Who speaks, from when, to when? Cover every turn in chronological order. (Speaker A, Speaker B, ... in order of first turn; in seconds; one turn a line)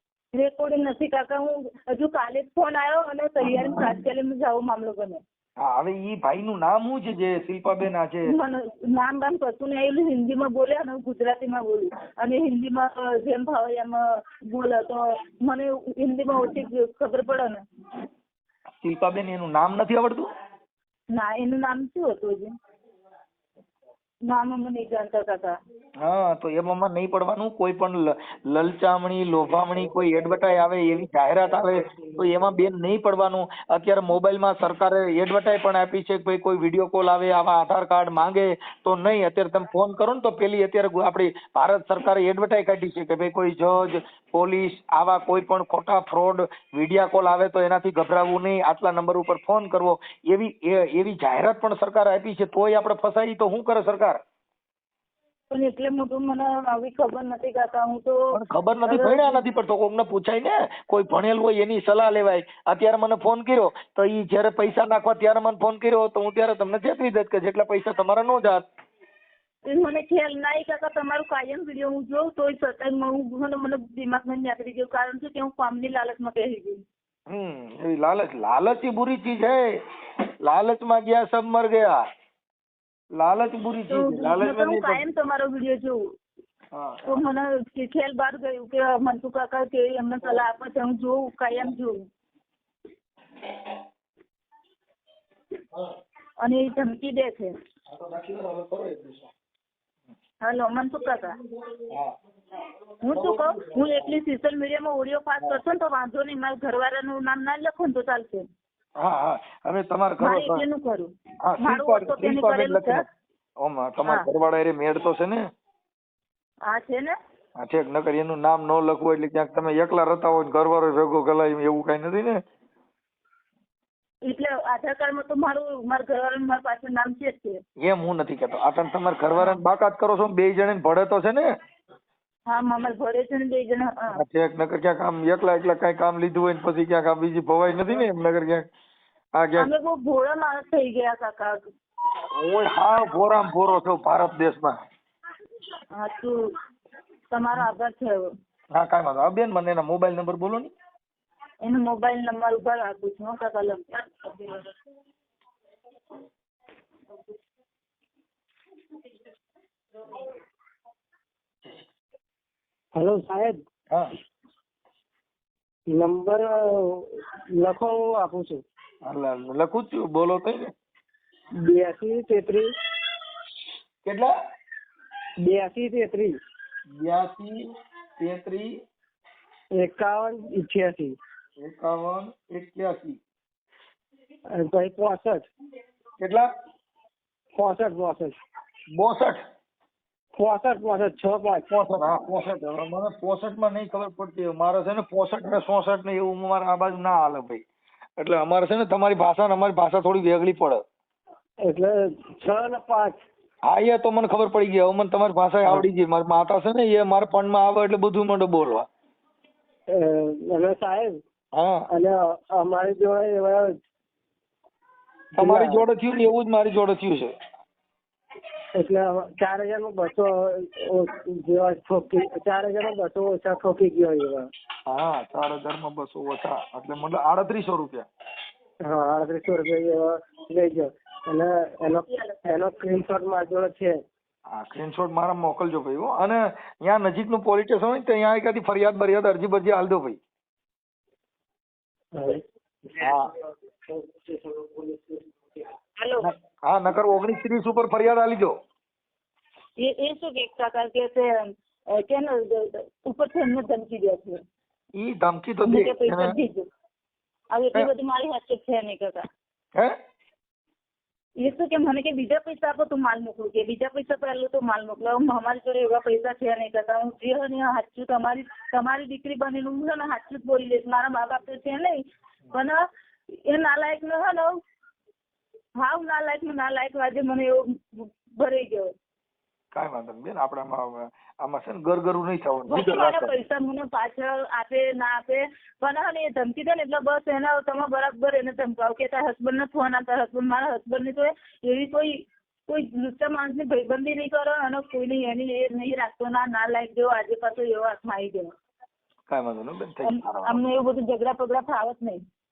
Speaker A: 0.3-5.2
Speaker B: 5.6-8.3
Speaker A: 8.3-17.6
Speaker B: 18.8-20.3
Speaker A: 21.1-22.5
Speaker A: 24.3-25.5
Speaker B: 26.0-54.2
Speaker C: 29.8-30.5
Speaker C: 31.9-32.4
Speaker A: 55.5-58.3
Speaker B: 58.3-68.6
Speaker A: 58.9-59.4
Speaker A: 69.7-76.8
Speaker B: 77.3-79.7
Speaker B: 80.4-82.0
Speaker B: 83.2-85.0
Speaker A: 83.9-86.0
Speaker B: 86.7-87.2
Speaker A: 87.1-92.0
Speaker A: 96.4-97.5
Speaker B: 97.9-99.3
Speaker A: 100.4-101.4
Speaker B: 101.8-102.1
Speaker A: 103.0-108.5
Speaker B: 103.1-104.0
Speaker B: 109.0-110.6
Speaker A: 110.2-111.1
Speaker B: 111.4-113.1
Speaker A: 111.6-113.0
Speaker B: 113.6-115.4
Speaker A: 116.7-117.1
Speaker B: 117.6-122.4
Speaker A: 124.2-127.6
Speaker B: 127.8-131.4
Speaker A: 132.5-134.2
Speaker B: 134.1-138.6
Speaker B: 139.4-139.7
Speaker A: 139.6-141.6
Speaker B: 142.3-144.8
Speaker A: 145.9-146.3
Speaker A: 147.3-148.3
Speaker B: 148.7-150.7
Speaker A: 151.6-154.7
Speaker C: 162.9-163.6
Speaker C: 165.9-168.6
Speaker B: 169.0-170.7
Speaker C: 171.6-172.7
Speaker B: 174.0-174.3
Speaker C: 175.4-176.3
Speaker B: 176.9-177.7
Speaker B: 178.2-178.7
Speaker C: 179.7-181.2
Speaker B: 181.6-183.2
Speaker C: 184.5-185.5
Speaker B: 186.2-186.5
Speaker C: 187.5-188.4
Speaker B: 188.9-189.4
Speaker C: 190.3-191.7
Speaker B: 191.7-197.6
Speaker B: 198.2-200.8
Speaker C: 201.6-203.2
Speaker B: 203.7-208.8
Speaker C: 209.9-211.2
Speaker B: 211.5-211.9
Speaker C: 211.9-213.7
Speaker C: 215.3-215.8
Speaker B: 215.4-217.3
Speaker C: 218.7-224.5
Speaker B: 224.9-228.1
Speaker C: 228.8-234.0
Speaker A: 232.1-232.5
Speaker B: 234.5-240.2
Speaker C: 242.1-243.1
Speaker B: 243.0-243.3
Speaker C: 243.9-245.6
Speaker A: 246.0-246.3
Speaker B: 246.2-248.5
Speaker A: 249.8-251.3
Speaker A: 251.9-254.4
Speaker B: 255.0-256.3
Speaker A: 255.7-256.7
Speaker A: 257.5-259.2
Speaker A: 261.4-272.0
Speaker A: 272.5-272.8
Speaker A: 273.4-274.6
Speaker A: 275.8-278.9
Speaker B: 279.7-283.3
Speaker A: 282.7-298.5
Speaker B: 299.3-300.6
Speaker A: 300.0-302.2